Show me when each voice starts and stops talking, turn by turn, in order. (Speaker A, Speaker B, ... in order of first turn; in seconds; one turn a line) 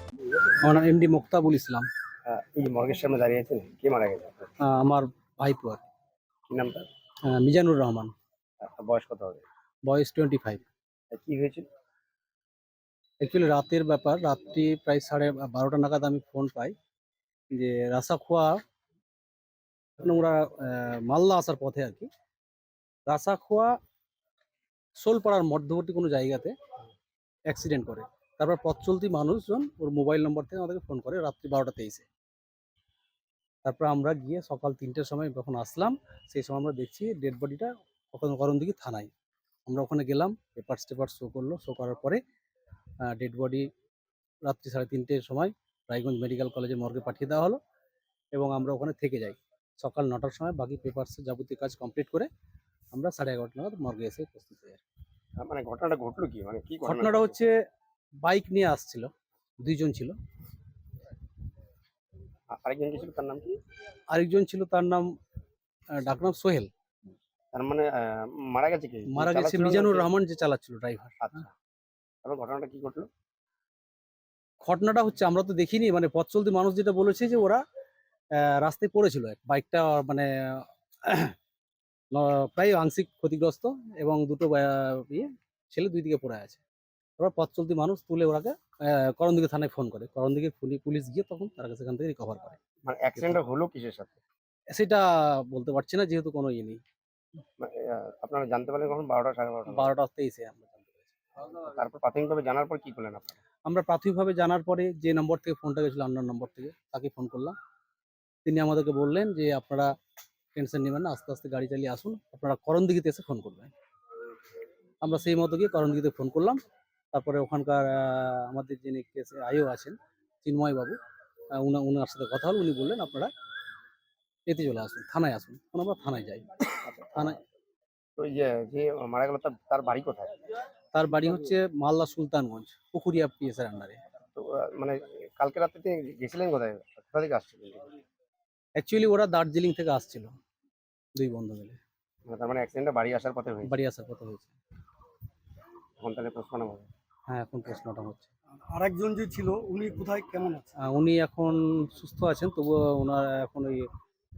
Speaker A: 0.6-1.9
Speaker B: 2.2-4.5
Speaker A: 4.6-5.8
Speaker B: 6.5-6.9
Speaker A: 7.3-8.1
Speaker B: 8.6-9.4
Speaker A: 9.9-10.6
Speaker B: 11.1-11.7
Speaker A: 13.2-16.8
Speaker A: 17.5-18.6
Speaker A: 20.0-22.1
Speaker A: 23.1-23.7
Speaker A: 25.0-26.5
Speaker A: 27.5-32.1
Speaker A: 33.6-39.1
Speaker A: 39.7-42.2
Speaker A: 43.0-43.7
Speaker A: 44.5-47.6
Speaker A: 48.4-52.3
Speaker A: 52.9-54.8
Speaker B: 55.4-57.4
Speaker A: 56.9-57.6
Speaker A: 58.2-59.1
Speaker A: 59.6-60.1
Speaker B: 62.5-63.6
Speaker A: 64.1-65.1
Speaker A: 66.0-66.7
Speaker B: 67.5-70.1
Speaker A: 69.1-71.2
Speaker B: 71.2-71.5
Speaker B: 72.2-73.1
Speaker A: 74.6-77.6
Speaker A: 78.4-81.3
Speaker A: 82.1-86.6
Speaker A: 87.2-92.6
Speaker B: 92.9-94.2
Speaker A: 94.7-96.8
Speaker B: 97.6-99.9
Speaker A: 99.7-101.2
Speaker B: 101.7-103.4
Speaker A: 103.7-107.6
Speaker A: 108.5-109.9
Speaker A: 110.5-113.7
Speaker A: 115.0-116.6
Speaker A: 117.1-121.0
Speaker A: 121.6-123.3
Speaker A: 124.5-126.7
Speaker B: 126.8-127.4
Speaker B: 128.2-130.3
Speaker A: 130.9-134.0
Speaker B: 134.4-137.8
Speaker A: 138.8-140.3
Speaker A: 141.2-141.8
Speaker B: 142.3-143.8
Speaker A: 143.7-144.5
Speaker B: 146.0-146.9
Speaker A: 147.3-148.3
Speaker C: 148.7-150.7
Speaker A: 150.8-153.9